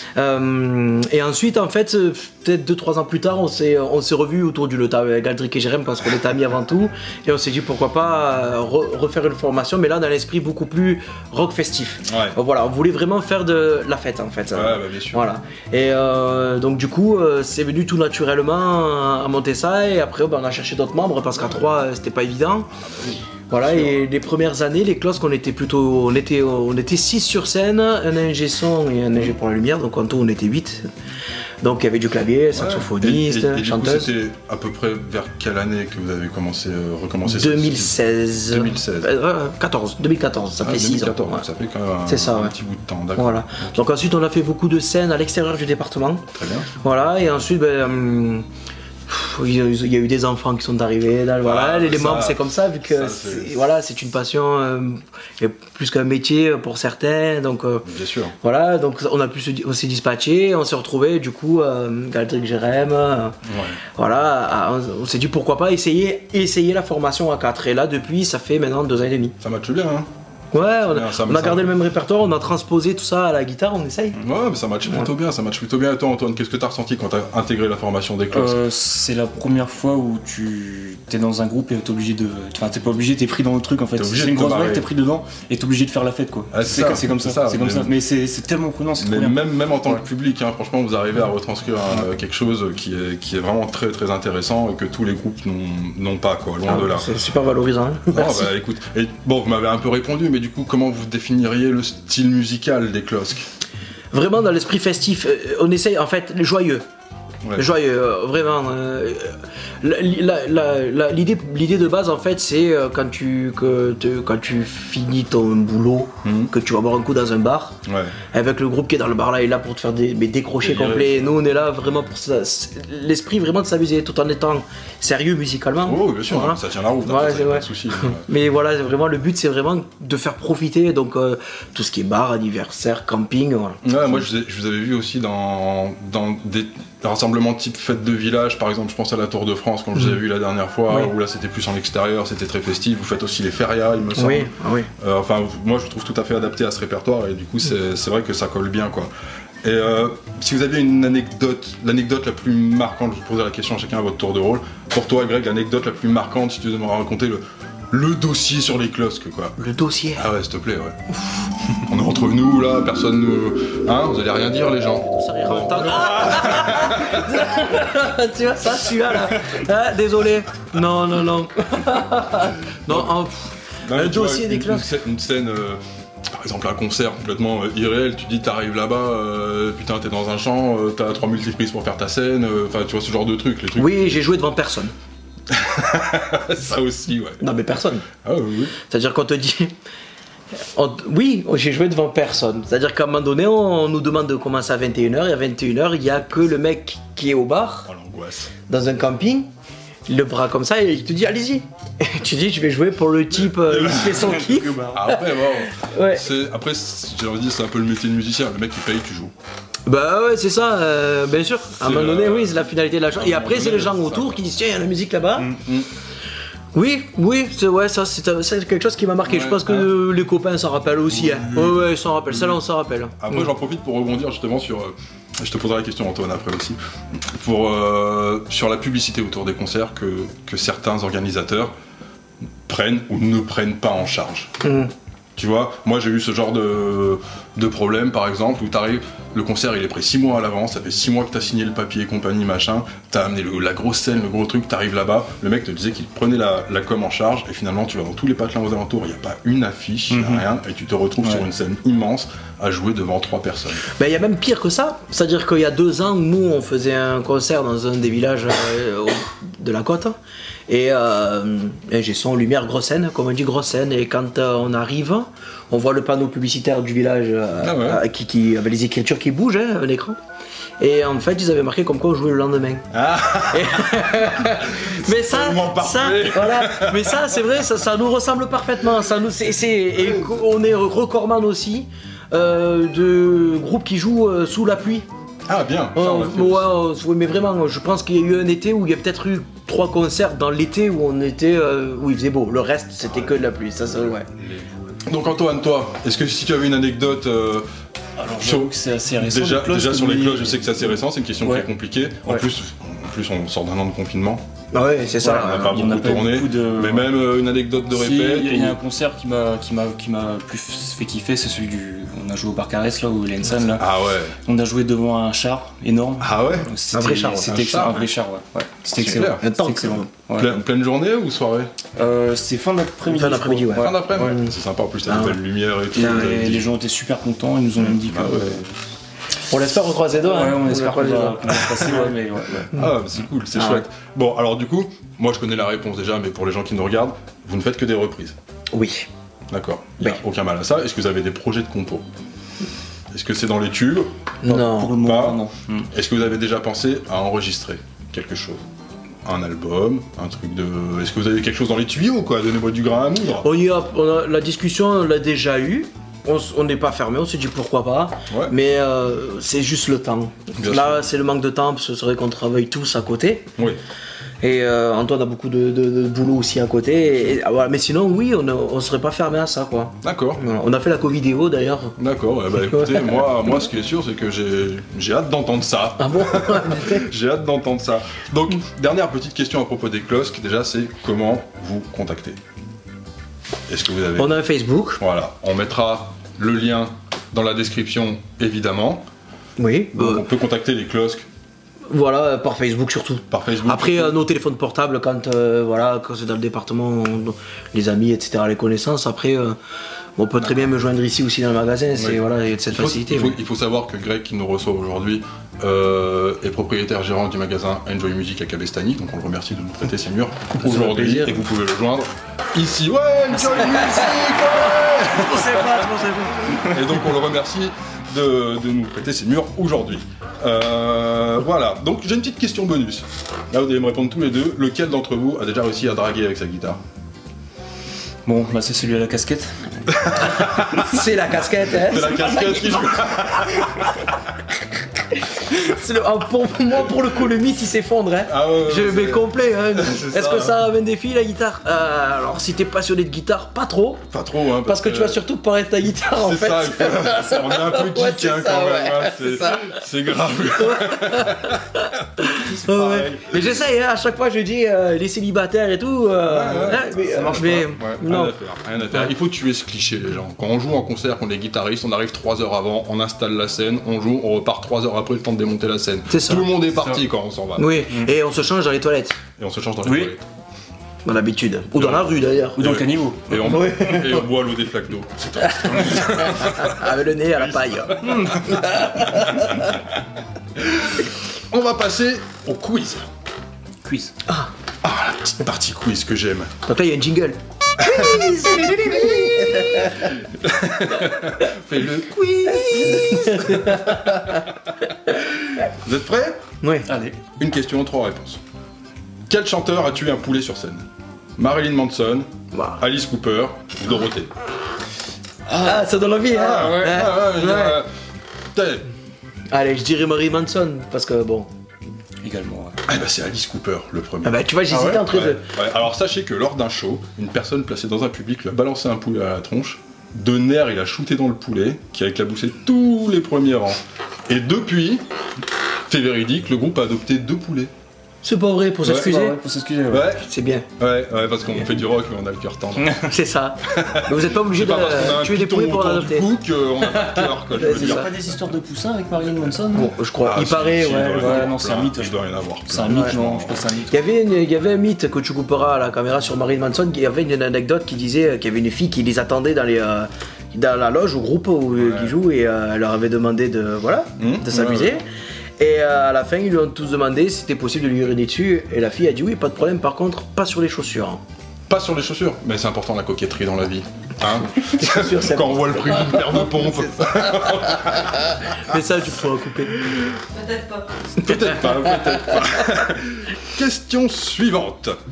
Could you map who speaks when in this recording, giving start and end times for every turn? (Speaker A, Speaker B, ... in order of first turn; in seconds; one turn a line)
Speaker A: 0.1-22.7
Speaker B: 12.1-12.4
Speaker B: 14.5-15.2
Speaker B: 22.7-24.0
Speaker A: 23.5-30.9
Speaker A: 31.6-34.1
Speaker B: 32.5-39.1
Speaker A: 37.2-41.4
Speaker B: 40.6-43.8
Speaker A: 42.0-42.5
Speaker A: 43.2-46.3
Speaker B: 46.3-46.7
Speaker A: 46.8-48.5
Speaker A: 49.1-57.9
Speaker B: 51.4-53.6
Speaker B: 57.8-58.3
Speaker A: 58.4-63.4
Speaker B: 63.4-63.8
Speaker A: 63.9-69.3
Speaker B: 69.4-70.1
Speaker A: 70.5-74.2
Speaker B: 70.6-71.7
Speaker B: 74.2-78.6
Speaker C: 78.3-90.0
Speaker B: 84.0-84.8
Speaker B: 86.5-87.9
Speaker B: 89.0-97.1
Speaker A: 96.7-98.5
Speaker B: 98.1-103.5
Speaker A: 104.1-106.8
Speaker A: 107.5-117.8
Speaker B: 116.2-116.5
Speaker B: 117.8-118.1
Speaker A: 118.3-134.2
Speaker B: 120.6-121.4
Speaker B: 125.8-128.2
Speaker B: 133.8-149.1
Speaker A: 144.1-144.9
Speaker B: 149.6-159.6
Speaker A: 159.6-160.3
Speaker B: 160.1-161.0
Speaker B: 161.8-167.4
Speaker A: 165.1-174.8
Speaker B: 172.9-173.1
Speaker B: 173.8-184.2
Speaker A: 183.8-184.9
Speaker B: 185.5-187.4
Speaker A: 187.4-188.1
Speaker B: 188.2-188.7
Speaker A: 188.8-189.7
Speaker A: 190.7-197.9
Speaker B: 197.9-198.5
Speaker A: 198.7-199.5
Speaker A: 200.1-206.2
Speaker B: 203.3-209.3
Speaker C: 204.1-205.0
Speaker A: 209.8-215.6
Speaker B: 211.8-214.4
Speaker B: 215.4-215.9
Speaker A: 216.7-223.3
Speaker B: 219.2-219.9
Speaker B: 221.2-221.8
Speaker B: 223.2-231.7
Speaker B: 232.7-234.5
Speaker A: 234.6-234.9
Speaker B: 235.3-253.8
Speaker C: 250.1-250.4
Speaker A: 253.9-260.2
Speaker A: 260.7-270.2
Speaker B: 267.6-268.0
Speaker A: 270.8-272.9
Speaker B: 272.9-277.4
Speaker A: 273.5-285.1
Speaker B: 280.0-280.3
Speaker B: 285.5-286.7
Speaker A: 285.9-294.3
Speaker B: 293.2-293.4
Speaker B: 294.3-297.6
Speaker C: 298.2-301.7
Speaker B: 298.3-304.4
Speaker A: 304.7-305.8
Speaker B: 305.2-308.8
Speaker C: 305.2-307.2
Speaker C: 307.9-313.9
Speaker B: 313.8-314.4
Speaker C: 314.4-320.6
Speaker B: 316.2-316.7
Speaker A: 316.9-317.5
Speaker B: 317.4-318.0
Speaker B: 319.0-319.4
Speaker A: 319.0-320.1
Speaker B: 320.3-321.7
Speaker C: 321.9-324.4
Speaker A: 323.1-324.5
Speaker B: 323.8-326.7
Speaker A: 325.1-325.4
Speaker C: 325.9-328.7
Speaker A: 326.0-326.3
Speaker B: 327.8-328.6
Speaker A: 329.5-332.1
Speaker C: 330.2-332.7
Speaker B: 332.7-338.4
Speaker A: 333.5-333.8
Speaker A: 338.7-339.1
Speaker B: 339.5-342.1
Speaker B: 343.1-344.1
Speaker A: 344.4-344.9
Speaker C: 344.4-345.9
Speaker B: 344.9-348.6
Speaker B: 349.2-353.5
Speaker A: 353.4-363.5
Speaker B: 360.6-361.1
Speaker A: 364.4-372.0
Speaker B: 370.0-370.4
Speaker B: 372.0-382.4
Speaker A: 372.6-373.3
Speaker A: 376.0-377.1
Speaker B: 383.7-384.4
Speaker A: 384.2-385.0
Speaker B: 385.0-389.1
Speaker A: 389.6-390.2
Speaker B: 389.9-391.2
Speaker A: 391.9-399.6
Speaker B: 393.3-394.2
Speaker A: 400.2-403.4
Speaker B: 401.9-415.9
Speaker A: 410.6-411.4
Speaker A: 413.5-416.8
Speaker B: 416.5-426.8
Speaker C: 428.2-429.9
Speaker B: 429.9-430.9
Speaker A: 430.2-433.8
Speaker B: 431.7-434.0
Speaker A: 435.1-444.0
Speaker B: 438.3-440.6
Speaker B: 444.1-445.2
Speaker A: 444.6-449.8
Speaker B: 446.1-453.6
Speaker A: 450.6-458.4
Speaker B: 456.3-467.8
Speaker C: 456.9-458.0
Speaker A: 466.1-466.5
Speaker A: 467.6-469.2
Speaker B: 469.4-470.3
Speaker C: 469.8-470.1
Speaker A: 471.0-472.6
Speaker B: 471.7-479.7
Speaker C: 472.6-473.7
Speaker A: 473.4-474.3
Speaker A: 475.6-479.7
Speaker C: 478.0-478.6
Speaker B: 480.6-483.1
Speaker C: 483.8-484.1
Speaker B: 484.8-486.5
Speaker A: 486.6-490.1
Speaker B: 487.8-494.4
Speaker A: 492.1-494.5
Speaker B: 495.1-496.4
Speaker A: 496.6-496.9
Speaker C: 496.9-497.2
Speaker B: 497.4-498.4
Speaker B: 499.3-504.3
Speaker C: 505.5-505.9
Speaker A: 505.6-507.8
Speaker B: 506.3-507.9
Speaker C: 506.5-507.0
Speaker B: 508.5-508.9
Speaker A: 509.5-511.5
Speaker C: 512.2-512.8
Speaker B: 512.9-525.0
Speaker A: 514.2-515.4
Speaker C: 514.7-515.0
Speaker B: 525.9-527.7
Speaker A: 528.2-529.4
Speaker C: 528.8-530.1
Speaker B: 529.9-530.3
Speaker A: 530.2-530.7
Speaker B: 530.8-533.0
Speaker C: 532.8-533.1
Speaker A: 533.0-536.3
Speaker B: 533.7-538.1
Speaker A: 536.8-538.1
Speaker C: 537.5-539.9
Speaker A: 539.7-541.5
Speaker B: 540.2-543.6
Speaker C: 540.8-544.0
Speaker A: 542.9-543.2
Speaker A: 543.9-555.0
Speaker B: 551.8-552.1
Speaker B: 554.2-555.0
Speaker A: 555.6-561.2
Speaker B: 561.7-568.5
Speaker A: 564.5-566.6
Speaker A: 567.9-570.0
Speaker B: 571.1-575.0
Speaker A: 571.2-571.8